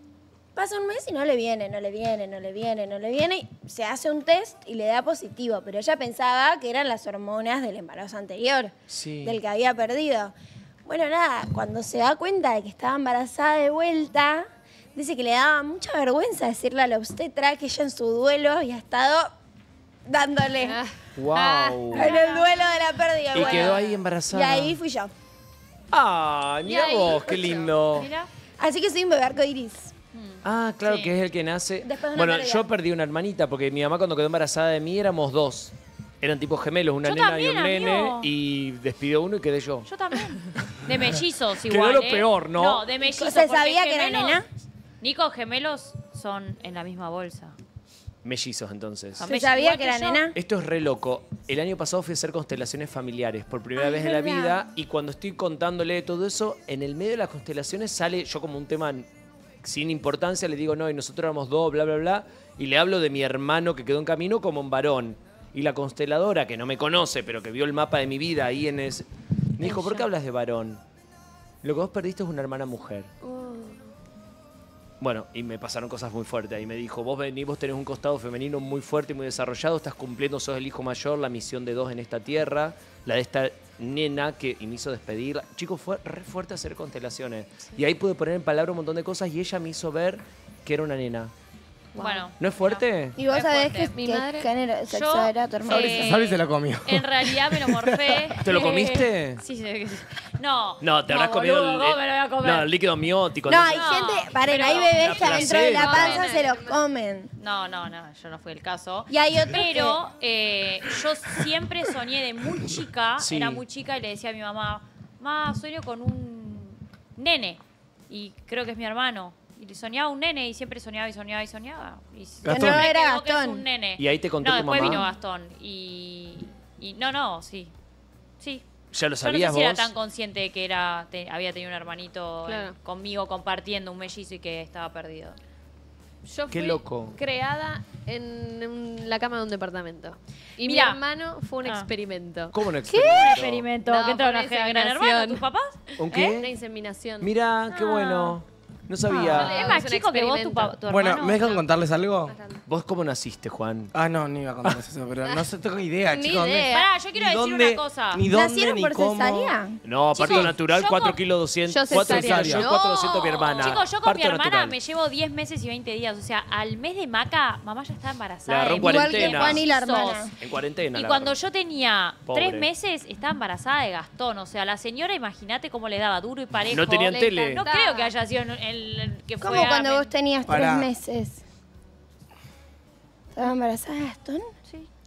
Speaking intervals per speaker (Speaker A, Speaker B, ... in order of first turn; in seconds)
Speaker A: 0.5-10.3, 10.8-19.3, 20.1-20.8, 21.9-25.1, 28.6-29.9, 31.8-32.7, 43.0-44.5, 49.2-50.4, 53.8-54.6, 93.2-96.2, 103.5-107.3, 109.1-110.0, 122.5-123.6, 158.3-159.8, 168.8-170.3, 179.4-181.4, 183.3-184.5
Speaker B: 8.9-9.4, 21.2-22.1, 23.3-24.8, 25.9-28.1, 30.4-39.9, 41.6-42.9, 48.2-49.2, 50.3-59.1, 59.6-69.0, 69.6-70.8, 71.6-73.1, 75.0-91.3, 92.4-93.2, 98.4-99.4, 100.8-103.9, 104.9-106.2, 113.2-113.6, 124.0-125.0, 128.9-129.9, 136.5-137.2, 142.5-143.7, 146.0-146.5, 147.2-149.8, 152.7-153.9, 159.8-164.8, 168.5-169.7, 170.4-171.3, 172.3-172.7, 176.7-177.6
Speaker C: 20.6-21.7, 26.7-27.7, 91.9-92.3, 94.0-94.5, 105.3-106.8, 132.4-132.8, 136.2-148.3, 149.1-150.8, 152.3-152.6, 156.1-156.9, 161.7-163.8, 177.6-178.1
Speaker D: 21.9-22.7, 23.3-23.8, 27.9-28.3, 30.1-31.1, 37.0-38.3, 39.9-44.4, 45.0-47.5, 49.2-50.2, 69.6-70.0, 92.0-93.9, 94.9-102.7, 103.7-105.8, 107.4-127.7, 129.2-135.4, 140.6-141.0, 141.6-141.9, 142.9-146.4, 149.2-151.6, 156.7-158.2, 160.2-161.2, 163.5-170.3, 170.9-180.1
Speaker E: 95.7-98.3, 122.4-122.9, 150.8-152.4, 153.9-159.5, 161.9-162.7, 180.5-180.9